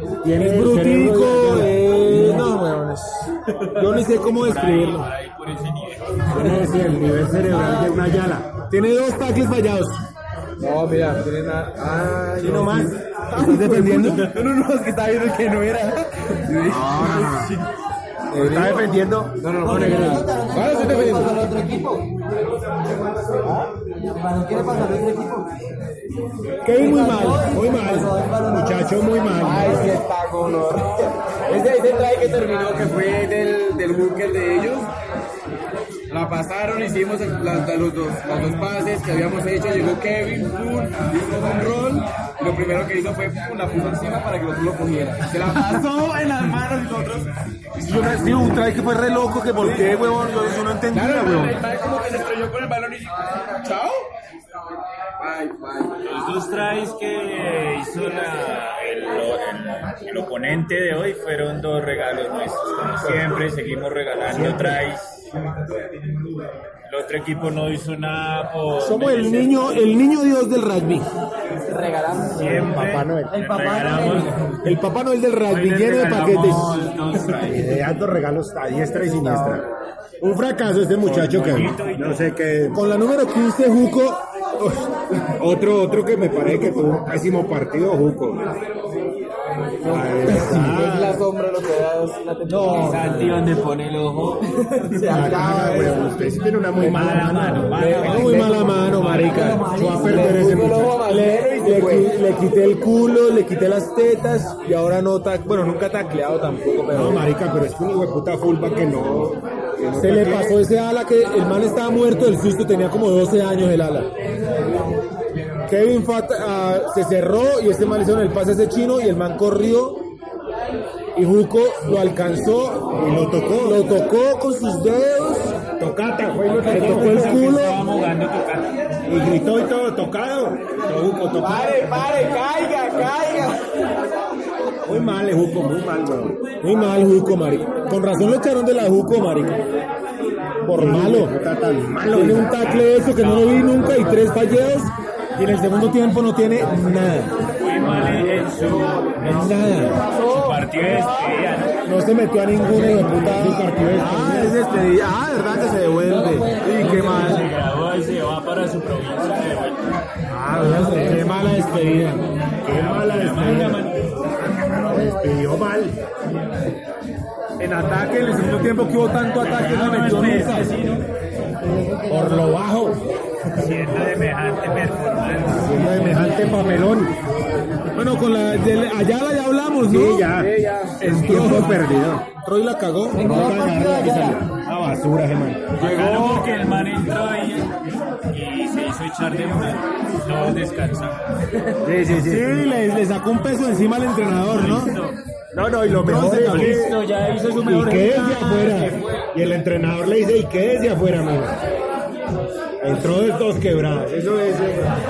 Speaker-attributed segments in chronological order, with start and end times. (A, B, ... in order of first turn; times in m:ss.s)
0:00.2-0:02.2 A
0:00.4-0:05.1 B
0:04.3-0:06.4 C
0:06.3-0:08.5 A
0:08.7-0:10.0 B
0:10.6-0:17.6 D
0:12.4-0:12.9 A
0:12.4-0:14.3 B
0:16.7-0:17.5 A
0:16.7-0:17.5 B
0:18.3-0:18.8 D
0:18.3-0:21.3 B
0:18.4-0:19.3 A
0:19.4-0:21.7 D
0:20.3-0:22.0 E
0:24.2-0:25.5 E
0:24.4-0:25.3 D
0:26.6-0:27.7 B
0:27.0-0:27.2 E
0:27.4-0:29.9 A
0:27.8-0:28.4 E
0:29.4-0:34.9 D
0:36.1-0:47.3 D
0:47.8-0:48.6 D
0:47.8-0:51.6 B
0:49.6-0:50.0 D
0:50.9-0:54.1 D
0:55.2-0:56.0 D
0:56.0-1:05.3 C
1:04.3-1:04.8 A
1:06.9-1:09.6 C
1:08.8-1:11.1 B
1:11.6-1:12.7 D
1:12.3-1:14.4 C
1:12.4-1:13.4 A
1:14.6-1:16.9 B
1:15.5-1:17.7 C
1:17.4-1:19.6 A
1:20.2-1:22.8 A
1:21.0-1:22.2 C
1:22.7-1:24.9 B
1:25.4-1:28.4 A
1:29.8-1:33.4 D
1:29.8-1:31.2 A
1:32.5-1:33.0 B
1:32.6-1:34.4 C
1:34.6-1:35.9 D
1:35.1-1:37.8 A
1:36.8-1:39.6 C
1:37.7-1:42.1 D
1:37.8-1:40.3 B
1:39.6-1:41.0 A
1:41.0-1:47.2 B
1:46.9-1:50.6 A
1:49.9-1:54.1 B
1:55.7-2:00.0 B
2:01.2-2:03.0 B
2:03.0-2:03.8 A
2:03.6-2:05.6 B
2:05.8-2:07.4 A
2:06.6-2:07.8 B
2:06.7-2:08.9 C
2:09.1-2:11.8 A
2:11.4-2:13.7 D
2:14.8-2:16.4 A
2:16.6-2:19.6 B
2:20.6-2:21.3 B
2:20.8-2:22.5 A
2:22.1-2:27.3 B
2:22.6-2:23.9 C
2:27.6-2:31.7 C
2:27.8-2:28.1 B
2:29.2-2:30.0 B
2:31.8-2:37.5 B
2:32.7-2:34.6 A
2:36.3-2:36.9 D
2:36.7-2:39.9 C
2:40.3-2:41.5 A
2:40.4-2:42.2 B
2:42.6-2:43.8 A
2:42.6-2:44.0 C
2:44.6-2:46.0 A
2:47.6-2:50.7 B
2:49.4-2:51.0 C
2:52.0-2:53.0 A
2:53.5-2:56.2 C
2:55.5-2:57.1 A
2:58.0-3:03.6 B
2:59.8-3:02.2 A
3:00.3-3:01.4 D
3:03.2-3:05.7 A
3:05.8-3:07.7 C
3:05.8-3:06.4 B
3:08.3-3:11.5 C
3:11.8-3:12.5 A
3:12.2-3:14.9 B
3:14.4-3:15.2 C
3:15.5-3:17.0 A
3:15.9-3:16.8 B
3:16.2-3:19.3 C
3:17.6-3:21.6 A
3:22.8-3:24.9 A